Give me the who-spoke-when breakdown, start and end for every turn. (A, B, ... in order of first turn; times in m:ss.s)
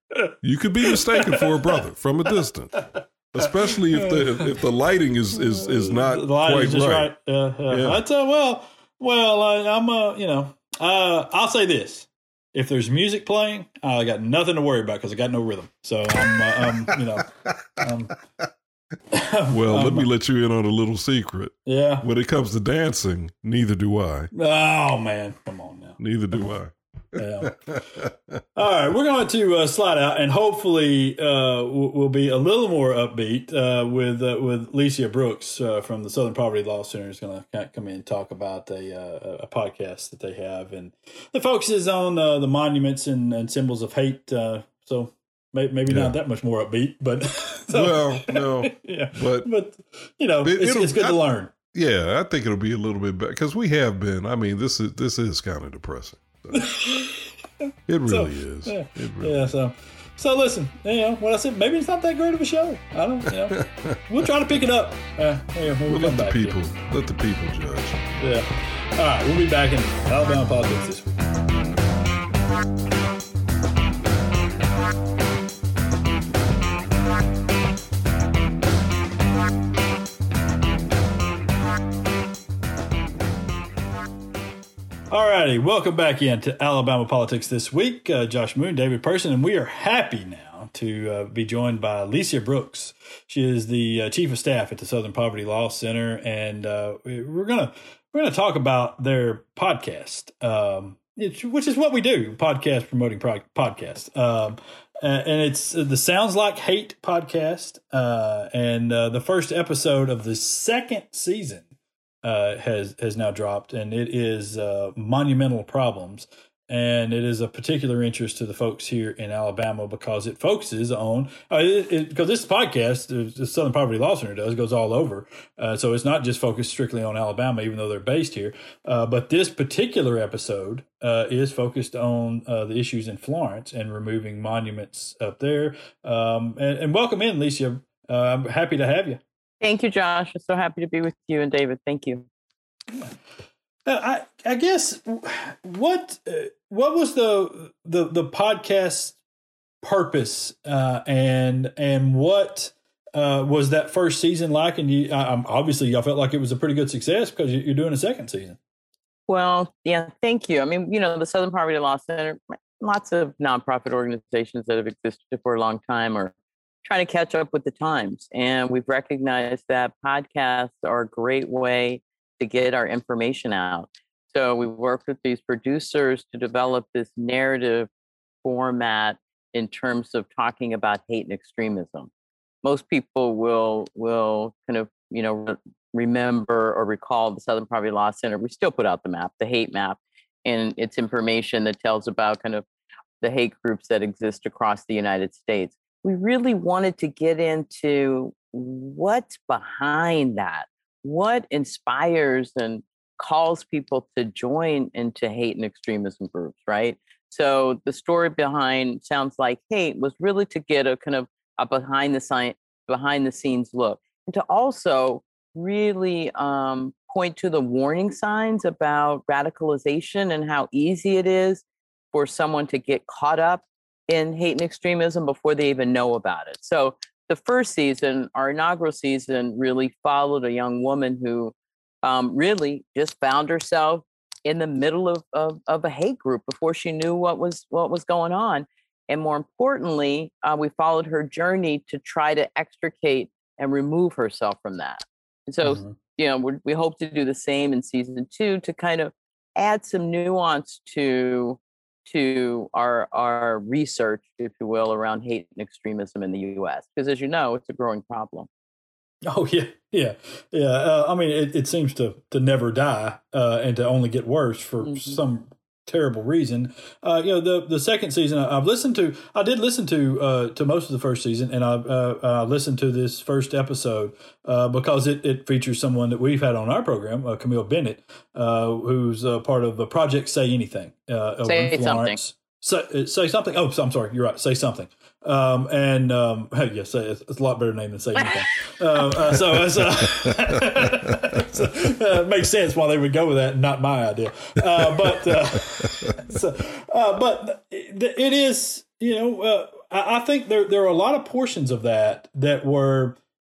0:00.4-0:07.1 A
0:00.9-0:01.4 B
0:03.7-0:04.5 B
0:05.4-0:18.2 B
0:07.7-0:08.0 A
0:19.1-0:20.1 B
0:19.5-0:24.3 A
0:21.6-0:22.0 B
0:24.3-0:26.0 B
0:26.0-0:28.1 A
0:27.2-0:27.6 B
0:28.5-0:51.5 B
0:45.9-0:46.1 A
0:47.7-0:49.5 A
0:50.4-0:51.2 A
0:51.7-0:56.8 A
0:56.5-0:57.3 B
0:57.9-0:59.5 A
0:58.1-1:06.6 B
1:03.5-1:04.0 A
1:05.9-1:08.2 A
1:08.2-1:11.2 B
1:25.1-1:51.7 B
1:52.2-2:19.2 B
2:19.6-2:22.2 C
2:23.8-2:29.2 B
2:29.8-2:38.6 B
2:39.3-2:46.3 C
2:46.8-2:57.9 C
2:58.4-3:02.1 C
3:02.6-3:12.6 C
3:13.2-4:18.5 C
4:05.6-4:06.0 B
4:19.2-5:03.2 B
4:24.8-4:25.2 C
4:41.4-4:42.2 C
4:54.8-4:55.4 A